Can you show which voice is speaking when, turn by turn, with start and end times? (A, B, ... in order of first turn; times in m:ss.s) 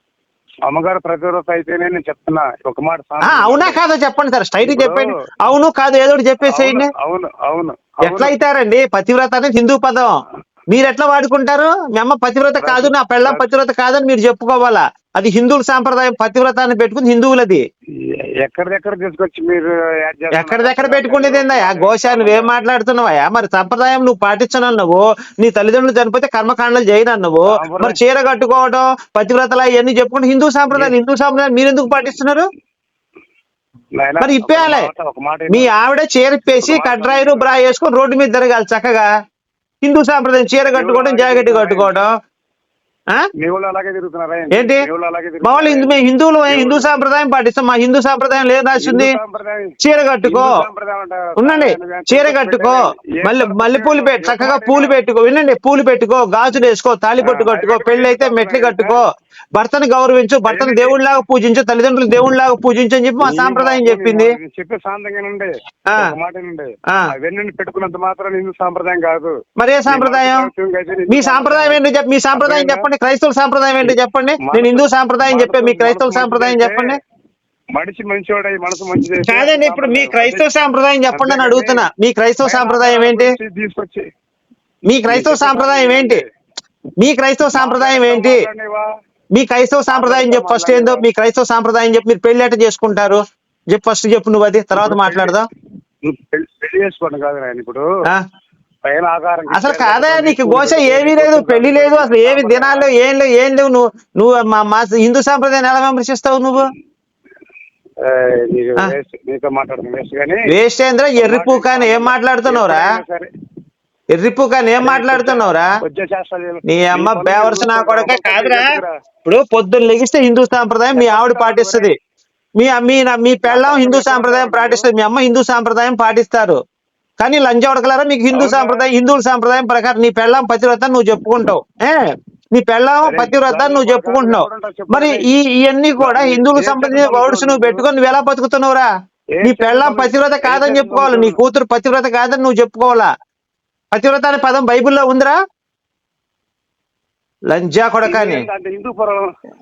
0:00.7-0:03.8 A
0:03.3-0:06.9 B
0:04.6-0:05.0 A
0:06.4-0:08.3 A
0:08.0-0:10.1 B
0:10.7-0:17.6 B
0:12.6-0:13.5 A
0:18.0-0:22.5 A
0:20.4-0:32.4 B
0:27.5-0:28.0 A
0:34.0-0:35.7 A
0:34.2-0:34.8 B
0:35.5-0:39.1 B
0:36.6-0:37.4 A
0:39.8-0:42.1 B
0:40.7-0:42.0 A
0:43.4-0:45.9 A
0:45.4-0:49.1 B
0:46.5-0:46.9 A
0:48.8-0:49.7 A
0:49.8-0:50.5 B
0:50.2-0:54.9 A
0:51.4-0:59.0 B
0:57.2-0:59.0 A
0:59.5-1:04.3 B
1:00.5-1:00.9 A
1:03.2-1:09.4 A
1:09.6-1:10.4 B
1:09.9-1:11.8 A
1:11.1-1:17.0 B
1:12.4-1:12.8 A
1:13.8-1:17.0 A
1:17.7-1:20.4 A
1:19.2-1:23.3 B
1:21.1-1:21.8 A
1:22.4-1:24.0 A
1:24.9-1:26.2 B
1:25.1-1:26.2 A
1:27.0-1:28.4 B
1:27.6-1:28.8 A
1:29.3-1:35.5 B
1:29.9-1:31.0 A
1:34.8-1:35.3 A
1:36.0-1:37.8 A
1:38.9-1:42.9 A
1:39.5-1:46.6 B
1:48.0-1:50.4 A
1:50.5-1:52.8 B
1:51.2-1:53.3 A
1:54.1-1:55.7 B
1:54.8-1:58.9 A
1:56.7-1:58.6 B
1:59.2-2:01.9 B
2:00.9-2:01.9 A
2:02.6-2:06.6 B
2:03.5-2:04.8 A
2:07.2-2:12.0 B
2:08.3-2:08.8 A
2:12.5-2:18.9 B
2:13.0-2:15.2 A
2:16.0-2:17.8 A
2:19.4-2:21.4 A
2:19.4-2:23.1 B
2:23.9-2:25.3 B
2:27.5-2:28.4 B
2:28.0-2:29.3 A